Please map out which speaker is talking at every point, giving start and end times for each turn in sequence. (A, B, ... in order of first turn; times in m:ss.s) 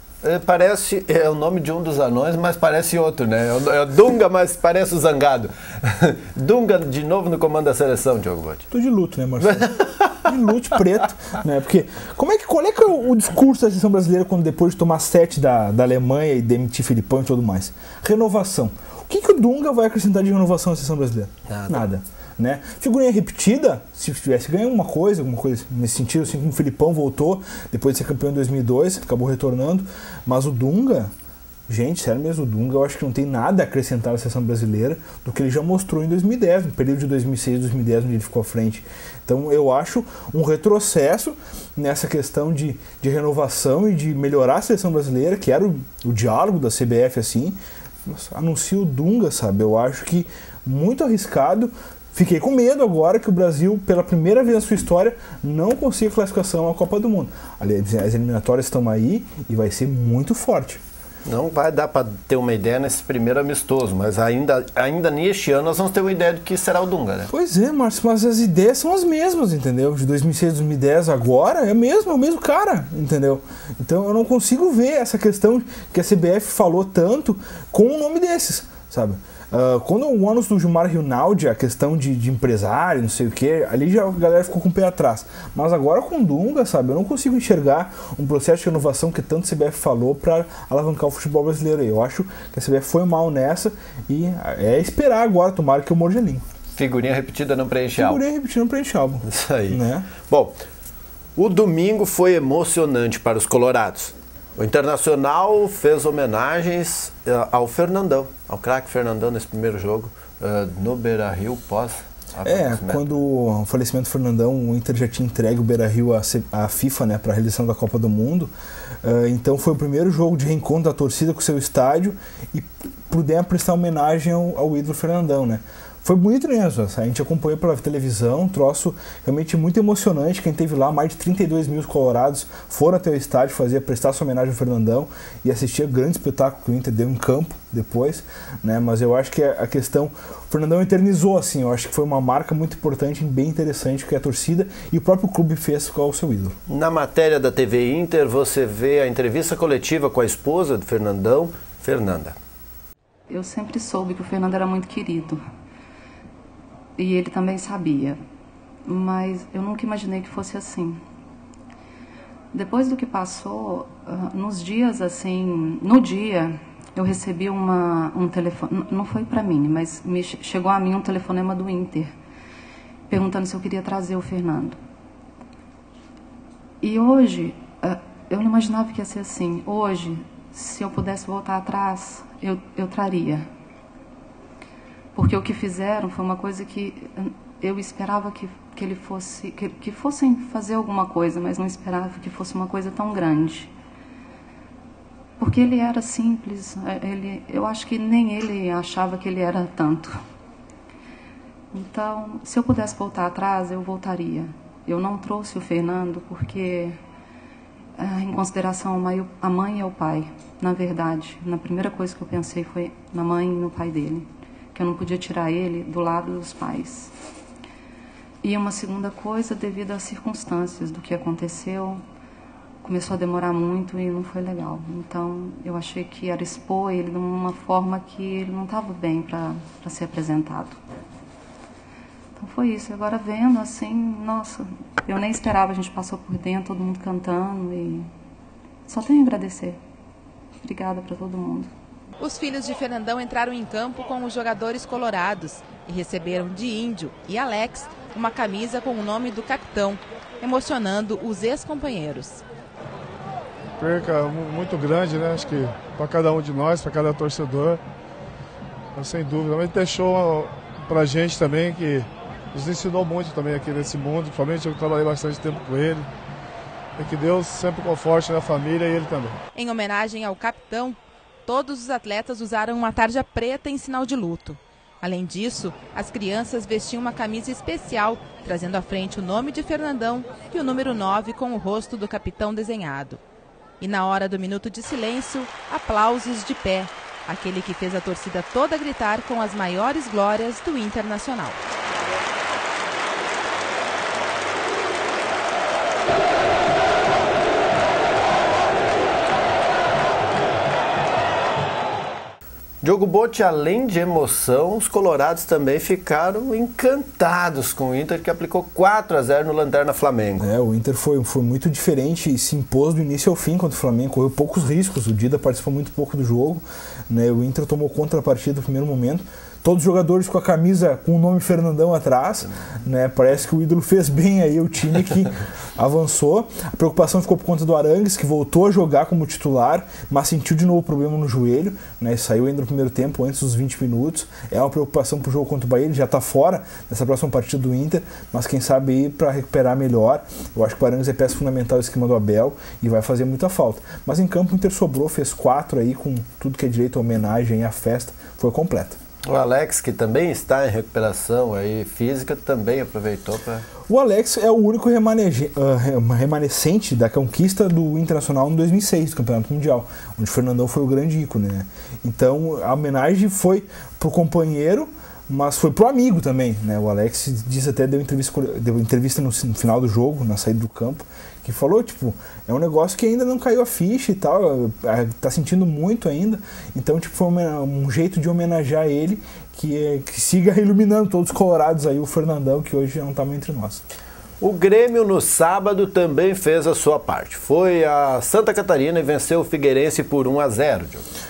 0:00.2-0:08.6 A
0:08.7-0:31.1 B
0:09.4-0:10.1 A
0:21.5-0:21.8 A
0:31.7-1:00.8 B
1:01.2-1:07.3 A
1:07.3-1:36.4 B
1:36.7-1:38.2 A
1:38.0-1:40.1 B
1:39.2-1:40.6 A
1:41.4-1:53.1 A
1:52.4-1:58.5 B
1:59.0-2:26.6 B
2:26.7-2:32.4 A
2:33.3-2:35.4 C
2:37.0-2:38.2 C
2:38.8-2:41.0 C
2:42.5-2:52.1 C
2:53.1-2:54.8 C
2:56.8-3:03.4 C
3:05.1-3:13.7 C
3:15.4-3:20.1 C
3:21.7-3:26.9 C
3:28.0-3:37.1 C
3:38.4-3:42.0 C
3:42.8-3:50.8 C
3:52.4-3:58.1 C
3:58.8-3:59.8 C
4:00.6-4:01.7 C
4:02.2-4:12.4 D
4:13.8-4:17.8 E
4:18.9-4:26.1 E
4:27.0-4:29.4 E
4:29.6-4:30.9 D
4:31.4-4:43.2 D
4:43.8-4:51.6 D
5:02.8-5:10.5 A
5:10.4-5:49.0 B
5:49.2-5:53.7 A
5:53.9-6:23.8 B
6:24.4-6:31.0 A